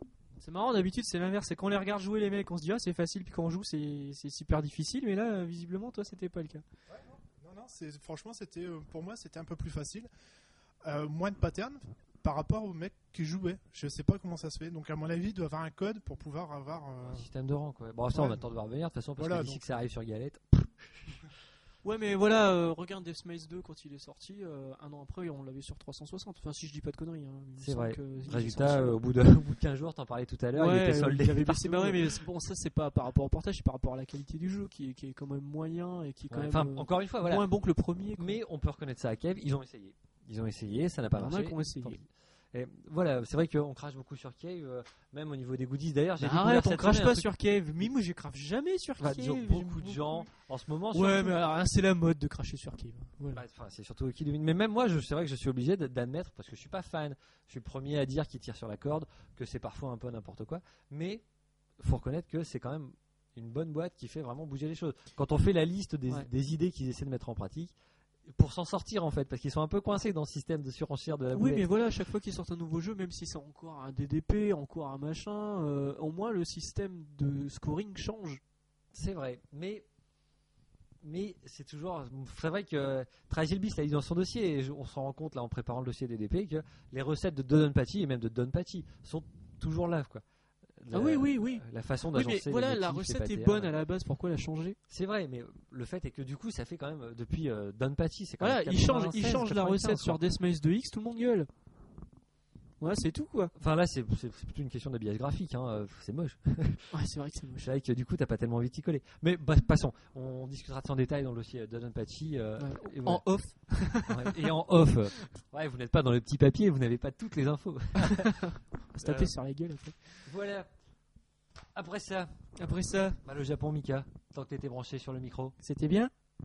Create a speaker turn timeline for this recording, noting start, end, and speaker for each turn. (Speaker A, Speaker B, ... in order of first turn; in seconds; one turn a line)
Speaker A: 0.4-6.6
Speaker B: 6.9-10.1
Speaker B: 10.8-17.3
Speaker C: 17.0-21.2
Speaker B: 18.1-18.4
Speaker B: 19.2-19.7
Speaker A: 21.8-29.0
Speaker C: 27.6-32.1
Speaker A: 30.5-38.4
Speaker C: 36.3-37.5
Speaker C: 38.2-47.2
Speaker A: 41.1-42.0
Speaker A: 46.2-50.3
Speaker C: 49.0-51.4
Speaker A: 50.9-53.4
Speaker C: 53.3-61.2
Speaker C: 61.8-67.7
Speaker C: 68.3-71.7
Speaker A: 71.3-78.4
Speaker C: 78.9-79.8
Speaker C: 81.0-90.2
Speaker C: 90.8-93.7
Speaker A: 90.9-94.8
Speaker C: 94.9-100.2
Speaker A: 98.4-101.5
Speaker A: 102.8-103.5
Speaker C: 103.5-106.9
Speaker A: 106.9-107.7
Speaker C: 107.6-113.2
Speaker A: 112.6-114.5
Speaker C: 114.0-118.5
Speaker A: 118.0-120.0
Speaker C: 119.0-119.3
Speaker C: 120.2-120.7
Speaker C: 121.7-122.3
Speaker A: 122.6-123.2
Speaker C: 123.2-125.5
Speaker A: 125.6-126.1